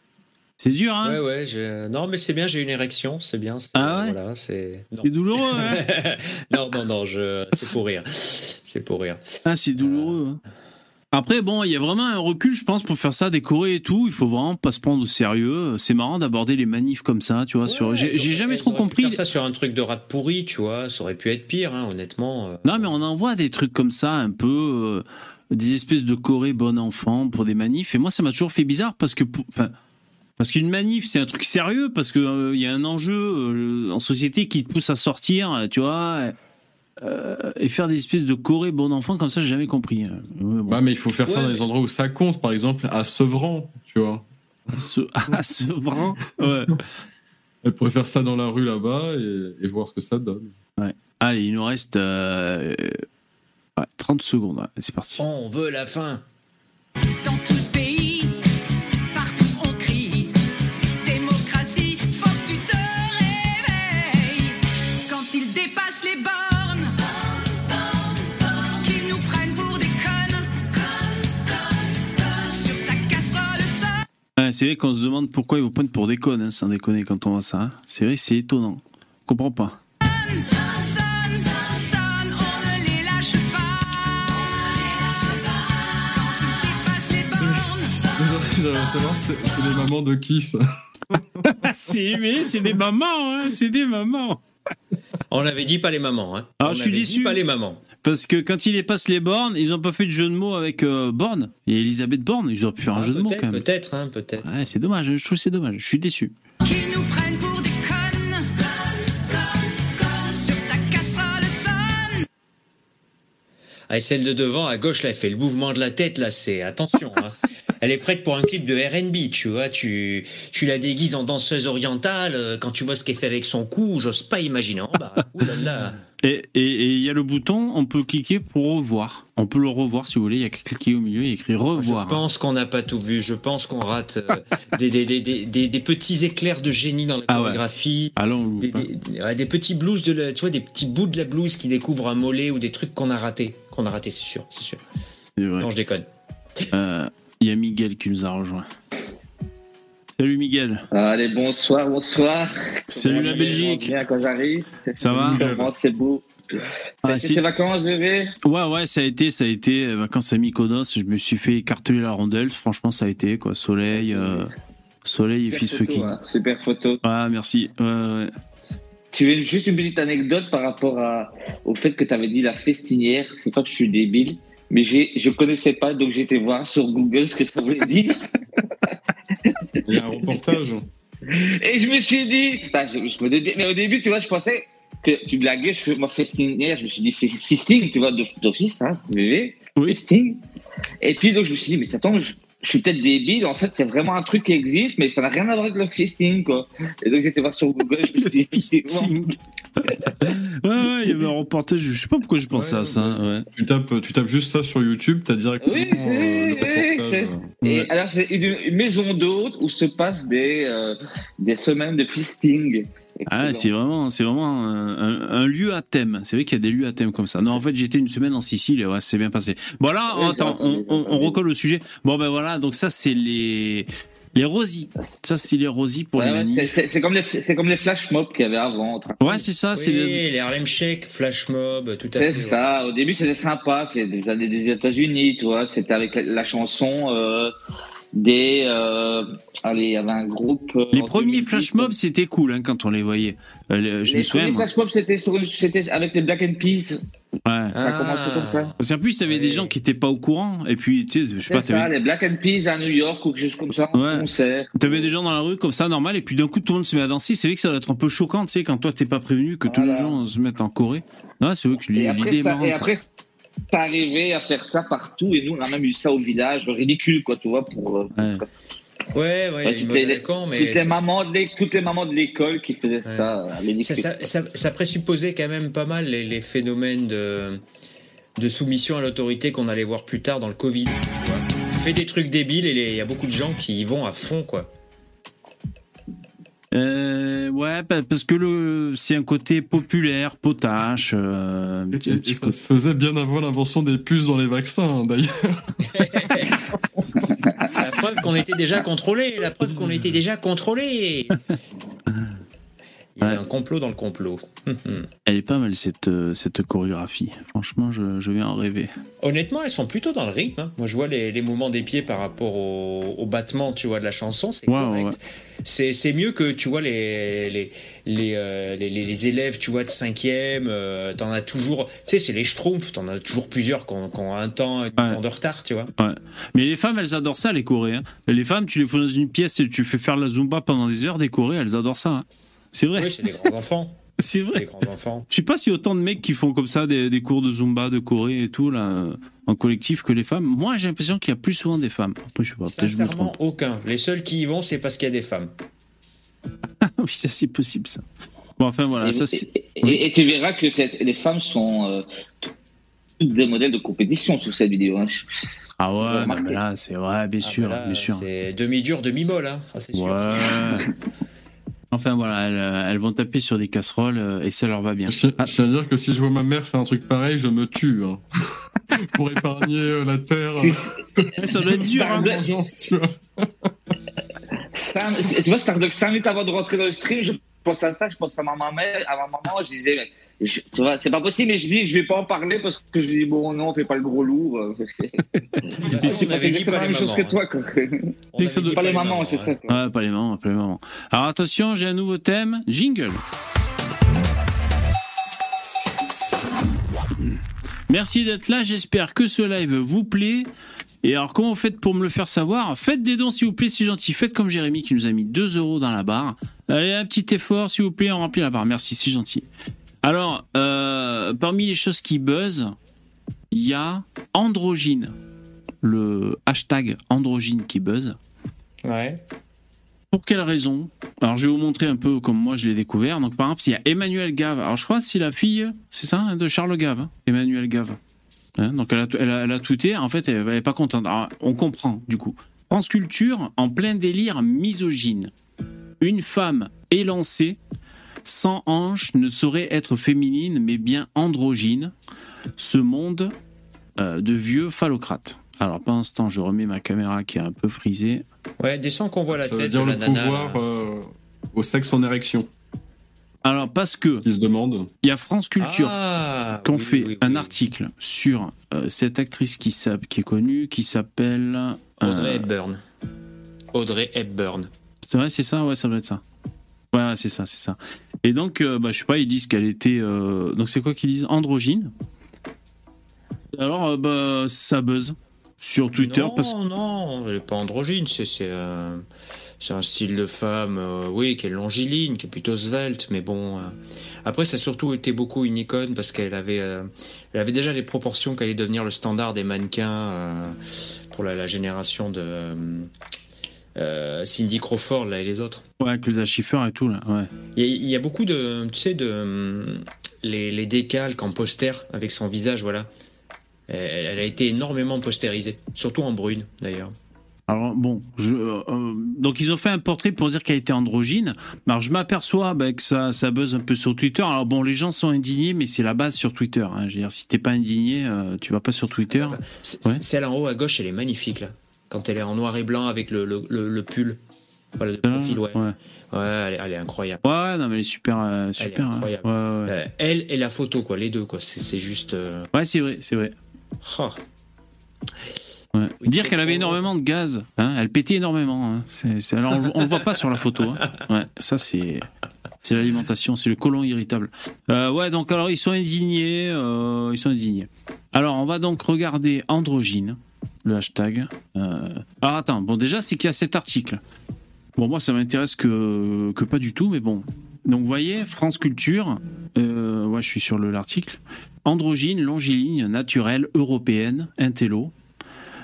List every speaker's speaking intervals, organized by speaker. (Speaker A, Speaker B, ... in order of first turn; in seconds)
Speaker A: 0.6-1.2, 3.7-4.2, 5.0-5.8, 9.4-10.4, 11.1-19.2, 22.6-29.7, 30.4-36.3, 37.0-40.8, 44.8-46.8, 50.8-53.0, 53.8-55.2, 74.4-79.8, 91.4-94.4, 96.6-97.4, 98.0-103.6, 104.4-106.3, 126.2-132.2, 137.3-137.6, 138.2-138.9, 145.4-145.7, 146.7-148.7, 150.1-150.8, 152.9-153.9, 155.0-155.4, 157.0-157.4, 158.4-164.5, 165.0-166.2, 167.0-168.3, 189.8-190.0, 198.1-203.4, 207.6-207.9, 213.3-226.7, 229.2-230.2, 240.9-244.7, 247.4-247.7, 248.8-251.9, 253.9-262.9, 268.1-268.4, 286.7-292.5, 305.2-308.9, 314.7-315.1, 326.0-333.3, 334.2-334.6, 335.3-343.3, 346.8-348.0, 348.6-350.0, 355.8-358.2, 359.9-360.9, 361.9-365.5, 371.4-372.4, 385.5-386.2, 388.4-388.8, 389.7-393.2, 397.9-400.5, 401.0-409.4, 410.0-412.7, 413.5-415.1, 415.8-418.2, 420.1-428.0, 428.6-435.3, 436.0-437.6, 438.2-441.9, 442.6-443.3, 444.0-448.2, 453.4-454.2, 455.0-455.9, 456.6-462.5, 465.0-466.2, 466.9-471.9, 473.5-476.5, 495.8-497.3, 507.5-520.0, 525.0-525.7, 527.2-529.7, 532.5-533.3, 535.7-542.1, 542.6-554.0, 554.8-564.9
Speaker B: 1.0-9.2, 9.8-10.2, 17.6-22.9, 41.3-41.6, 55.2-56.2, 95.3-97.8, 102.9-104.7, 113.9-126.0, 131.8-144.8, 145.6-146.1, 229.8-232.7, 247.7-248.7, 269.1-270.9, 273.1-277.6, 278.4-284.7, 295.9-296.5, 297.7-301.4, 303.1-305.1, 309.2-325.9, 332.9-335.3, 342.6-345.5, 357.4-360.6, 385.8-387.4, 388.3-389.5, 418.8-419.2, 448.6-450.6, 455.6-457.5, 462.0-462.8, 463.7-464.7, 476.0-479.0, 479.6-490.6, 491.1-492.9, 493.8-495.6, 497.5-502.9, 503.7-506.9, 519.1-524.2, 524.8-525.6, 526.1-527.2, 528.6-532.5, 533.8-534.2, 536.0-536.8
Speaker C: 40.7-44.8, 47.6-50.5, 88.1-91.9, 155.0-155.7, 179.8-180.9, 202.5-207.5, 291.9-296.2, 365.1-368.2, 368.9-373.7, 449.3-452.5, 454.2-454.9
Speaker D: 57.2-58.4, 59.1-60.3, 61.0-67.0, 68.8-71.0, 72.1-74.0, 80.0-88.0, 106.6-108.7, 109.3-112.2
Speaker E: 150.9-156.3, 157.0-158.3, 163.9-164.5, 165.5-167.0, 169.1-178.2, 180.1-180.4, 181.3-190.4, 191.0-199.2, 205.6-213.7, 220.1-221.4, 226.2-229.4, 232.1-237.5, 238.1-241.9, 244.1-247.0, 247.8-249.7, 251.5-255.1, 259.6-260.1, 261.9-263.0, 263.7-268.4, 269.6-274.1, 349.0-352.0, 353.2-355.3, 356.0-356.6, 370.6-370.9, 371.9-372.4, 374.8-388.1, 388.6-389.8